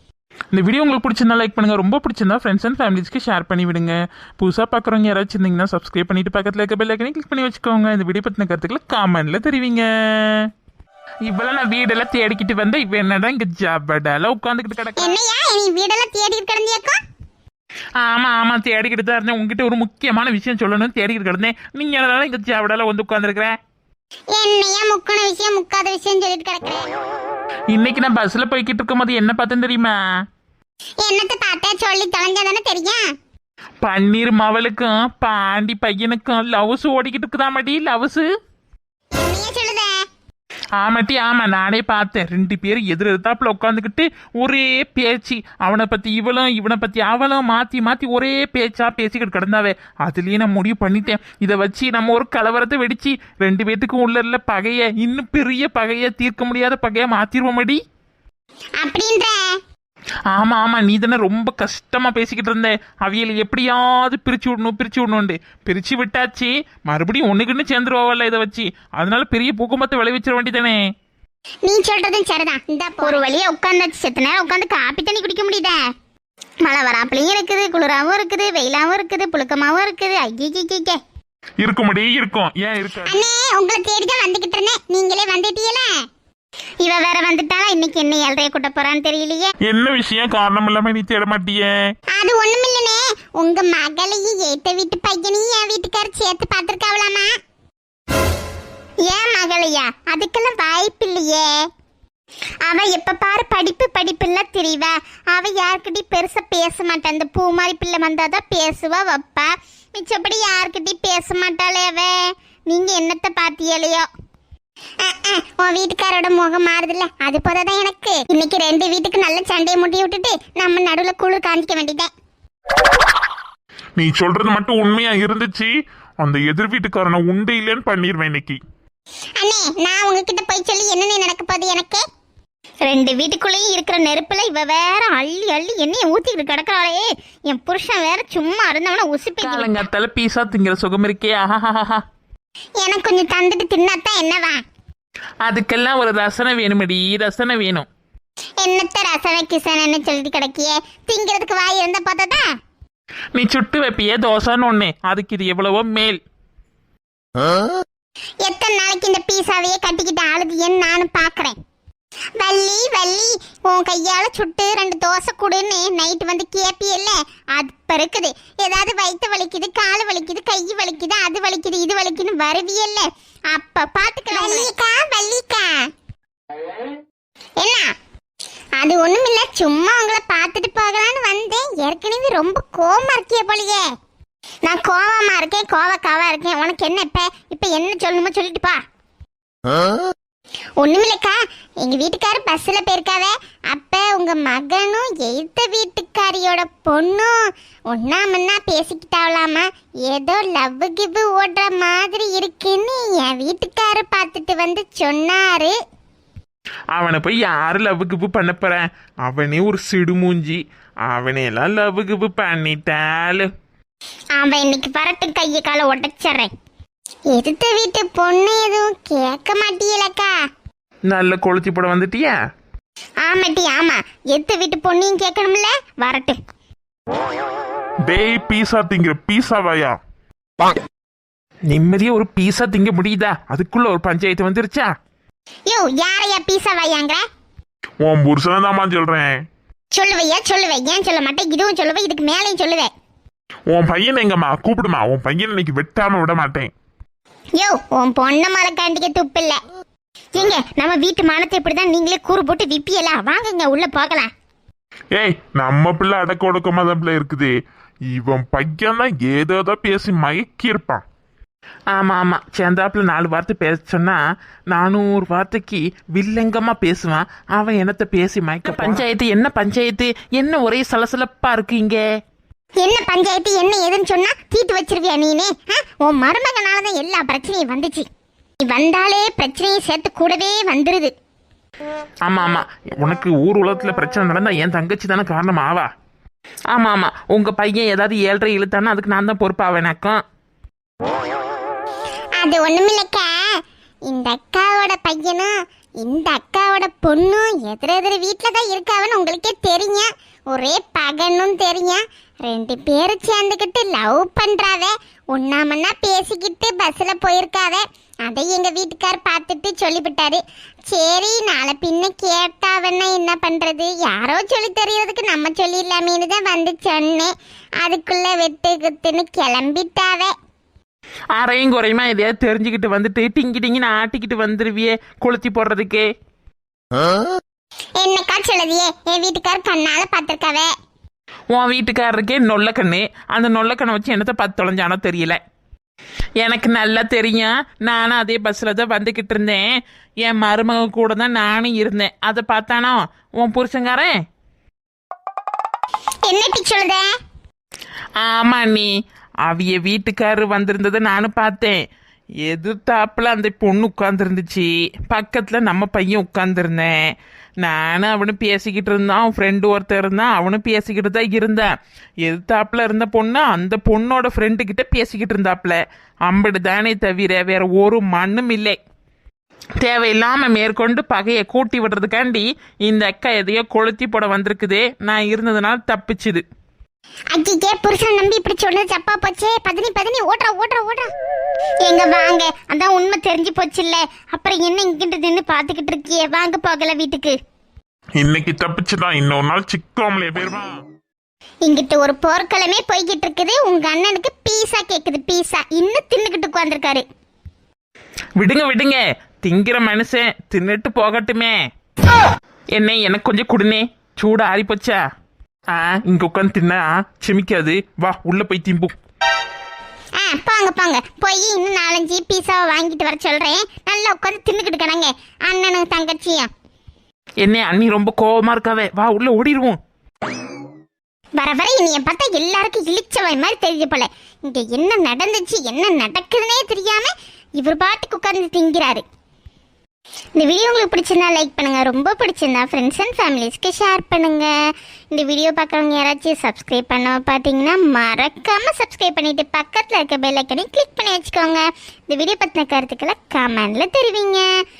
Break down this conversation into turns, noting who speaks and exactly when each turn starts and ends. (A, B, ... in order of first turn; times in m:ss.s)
0:00.5-0:10.5 A
0:11.2-0:15.2 A
0:15.0-0:17.0 B
0:18.0-0:23.5 A
0:24.3-0:26.9 B
0:27.7-0:30.0 A
0:31.0-0:33.0 B
0:33.8-0:38.3 A
0:39.2-0:39.9 B
0:40.8-0:57.8 A
0:58.8-0:59.6 B
1:00.3-1:10.8 A
1:11.6-1:15.8 B
1:16.6-1:21.0 B
1:21.6-1:23.2 C
1:23.0-1:25.9 B
1:26.8-1:29.5 B
1:29.6-1:31.7 C
1:32.1-1:37.3 B
1:39.0-1:41.5 B
1:42.6-1:54.0 B
1:55.0-2:02.1 B
2:04.0-2:08.6 C
2:09.4-2:12.0 B
2:12.8-2:19.8 B
2:19.4-2:22.0 A
2:22.8-2:24.6 B
2:25.4-2:27.9 A
2:28.6-2:32.4 B
2:33.3-2:36.2 A
2:38.4-2:41.5 B
2:42.4-2:55.9 B
2:57.6-2:57.9 B
2:58.8-3:03.8 B
3:04.6-3:08.8 B
3:10.8-3:17.4 B
3:17.9-3:25.7 B
3:26.9-3:33.5 A
3:34.4-3:36.5 B
3:37.3-3:40.3 B
3:41.1-3:42.3 A
3:43.2-3:46.4 B
3:48.1-3:50.0 C
3:51.7-3:54.9 A
3:55.7-3:57.2 B
3:58.0-3:59.4 C
3:59.9-4:02.9 B
4:03.7-4:06.7 C
4:07.6-4:09.6 B
4:10.3-4:14.3 B
4:15.1-4:17.5 C
4:18.1-4:21.0 C
4:21.9-4:24.2 A
4:24.7-4:32.0 A
4:28.8-4:29.0 C
4:32.8-4:38.0 B
4:38.6-4:41.1 B
4:42.2-4:45.9 A
4:46.7-4:50.2 A
4:52.4-4:53.3 B
4:54.1-4:55.5 B
4:56.0-5:20.3 B
5:21.3-5:26.1 A
5:28.0-5:30.7 B
5:31.5-5:35.4 A
5:36.4-5:39.7 A
5:40.2-5:44.2 A
5:46.2-5:47.1 B
5:48.2-5:48.9 A
5:49.4-5:51.8 A
5:52.4-5:57.0 A
5:57.6-6:01.7 A
6:02.2-6:08.8 A
6:09.8-6:16.4 A
6:17.3-6:21.1 B
6:21.8-6:27.4 B
6:28.2-6:30.8 C
6:31.6-6:37.0 B
6:38.4-6:41.6 A
6:42.8-6:45.0 A
6:45.7-6:48.9 A
6:50.2-6:56.5 B
6:57.4-6:59.8 A
7:01.4-7:09.0 B
7:10.4-7:14.5 B
7:15.1-7:24.5 B